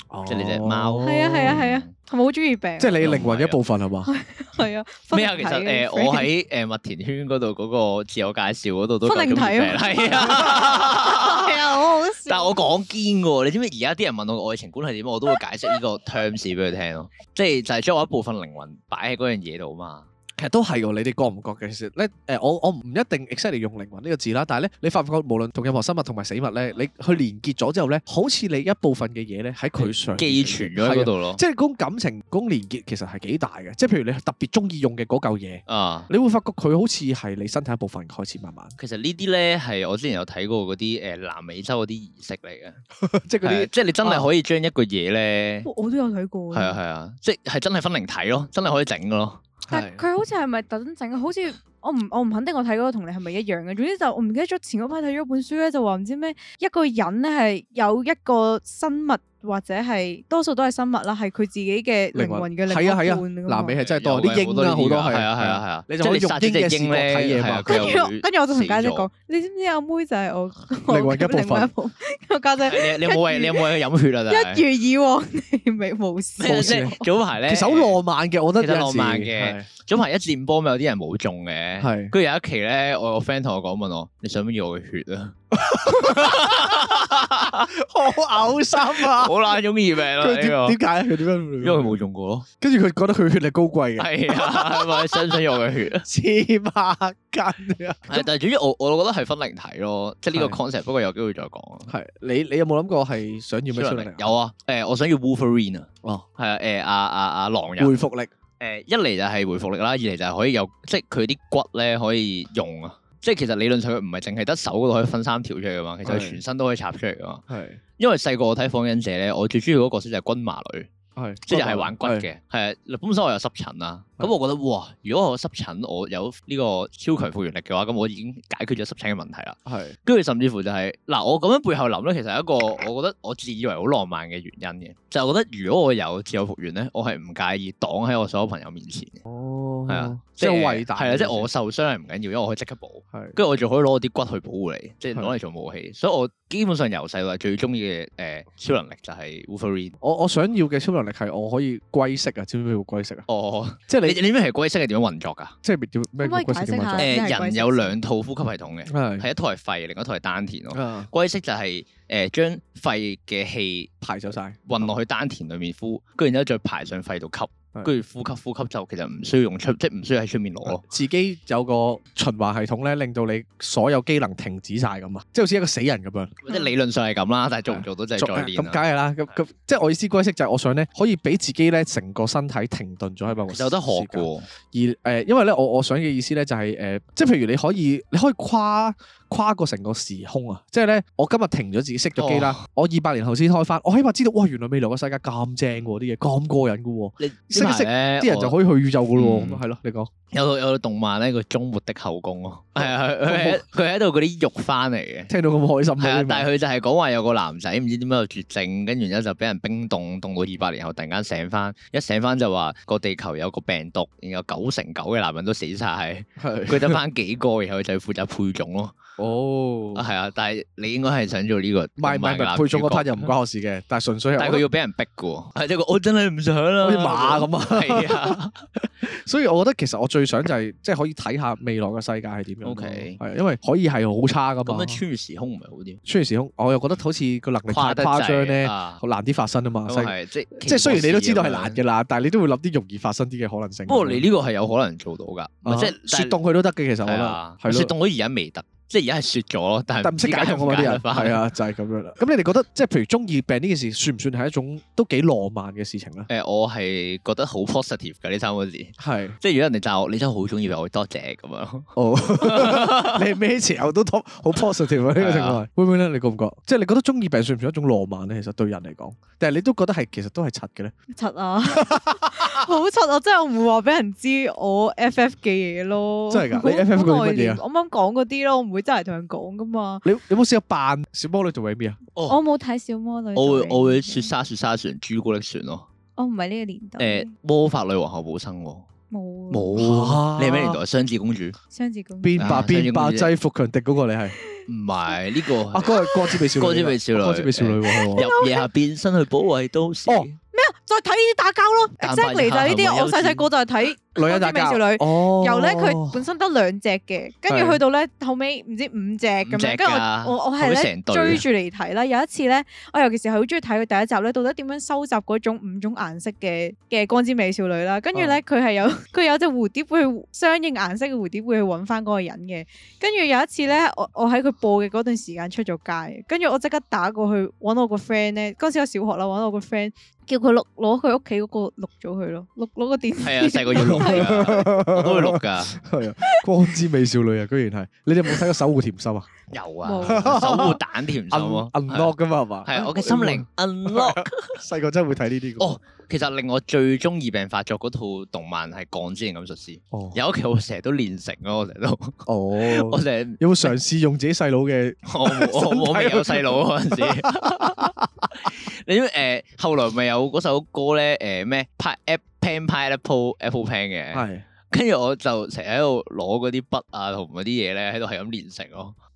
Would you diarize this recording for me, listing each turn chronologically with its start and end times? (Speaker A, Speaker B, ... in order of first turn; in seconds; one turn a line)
Speaker A: 0.1-1.6
Speaker B: 0.3-1.9
Speaker C: 1.0-3.1
Speaker A: 2.8-4.1
Speaker B: 3.0-3.6
Speaker C: 4.1-6.3
Speaker B: 5.1-20.1
Speaker C: 9.0-12.6
Speaker A: 20.4-38.7
Speaker B: 29.8-31.4
Speaker B: 35.7-36.1
Speaker B: 38.8-42.8
Speaker A: 43.0-44.3
Speaker B: 43.4-45.7
Speaker C: 45.6-46.8
Speaker B: 46.5-49.5
Speaker A: 49.7-50.0
Speaker C: 49.7-63.8
Speaker A: 62.1-68.0
Speaker B: 63.8-69.1
Speaker C: 67.7-77.0
Speaker A: 70.9-71.7
Speaker B: 72.6-74.6
Speaker B: 76.4-78.0
Speaker A: 76.5-79.7
Speaker B: 78.6-87.7
Speaker A: 81.8-82.1
Speaker A: 85.5-89.5
Speaker B: 89.0-90.8
Speaker A: 90.2-92.0
Speaker B: 91.6-92.5
Speaker A: 92.6-95.2
Speaker B: 94.0-96.1
Speaker A: 96.0-98.3
Speaker B: 98.1-101.9
Speaker A: 100.3-100.6
Speaker A: 101.9-104.3
Speaker B: 103.7-108.0
Speaker A: 107.8-108.3
Speaker B: 108.6-117.4
Speaker A: 116.0-116.4
Speaker A: 117.5-117.8
Speaker B: 118.0-120.9
Speaker A: 121.2-122.3
Speaker B: 121.4-139.2
Speaker A: 129.7-130.0
Speaker A: 139.3-141.5
Speaker B: 139.9-150.0
Speaker A: 150.0-153.3
Speaker B: 153.3-155.6
Speaker A: 153.9-154.2
Speaker A: 155.6-157.1
Speaker C: 156.2-158.0
Speaker B: 157.0-163.9
Speaker A: 158.9-159.3
Speaker A: 160.7-161.1
Speaker A: 164.0-164.9
Speaker B: 164.7-170.8
Speaker A: 170.7-176.4
Speaker B: 176.4-178.8
Speaker A: 177.7-200.1
Speaker B: 183.5-184.5
Speaker B: 192.2-192.6
Speaker B: 197.2-198.6
Speaker B: 199.2-199.6
Speaker B: 200.3-205.3
Speaker A: 202.8-203.6
Speaker A: 205.3-206.5
Speaker B: 206.0-218.9
Speaker A: 216.4-217.0
Speaker A: 219.2-220.1
Speaker B: 219.9-223.3
Speaker A: 222.0-224.7
Speaker B: 224.4-228.6
Speaker A: 226.8-235.0
Speaker B: 232.6-233.2
Speaker B: 234.7-236.0
Speaker A: 236.1-244.2
Speaker B: 237.7-239.0
Speaker B: 239.9-241.8
Speaker B: 243.9-246.4
Speaker A: 245.7-247.9
Speaker B: 247.0-251.4
Speaker A: 250.0-256.3
Speaker B: 256.3-263.2
Speaker A: 259.0-259.4
Speaker A: 262.0-270.9
Speaker B: 265.2-265.6
Speaker C: 271.1-280.1
Speaker A: 271.7-272.5
Speaker A: 276.3-277.6
Speaker A: 280.1-282.0
Speaker C: 282.3-284.3
Speaker B: 283.4-285.9
Speaker C: 286.2-287.3
Speaker B: 287.0-288.9
Speaker C: 289.1-289.7
Speaker B: 289.5-291.6
Speaker A: 289.8-290.8
Speaker C: 291.7-292.4
Speaker A: 292.2-294.4
Speaker B: 292.4-293.3
Speaker B: 294.7-300.4
Speaker A: 295.7-298.3
Speaker C: 298.0-298.7
Speaker C: 300.5-334.6
Speaker B: 302.0-303.5
Speaker A: 304.2-306.2
Speaker A: 307.5-307.8
Speaker B: 309.4-311.4
Speaker B: 333.2-335.8
Speaker A: 333.8-339.3
Speaker B: 339.5-342.1
Speaker C: 339.8-340.3
Speaker A: 340.0-345.8
Speaker B: 342.6-344.6
Speaker B: 345.6-353.7
Speaker A: 349.9-350.2
Speaker A: 352.3-358.3
Speaker B: 355.1-369.0
Speaker A: 364.1-364.4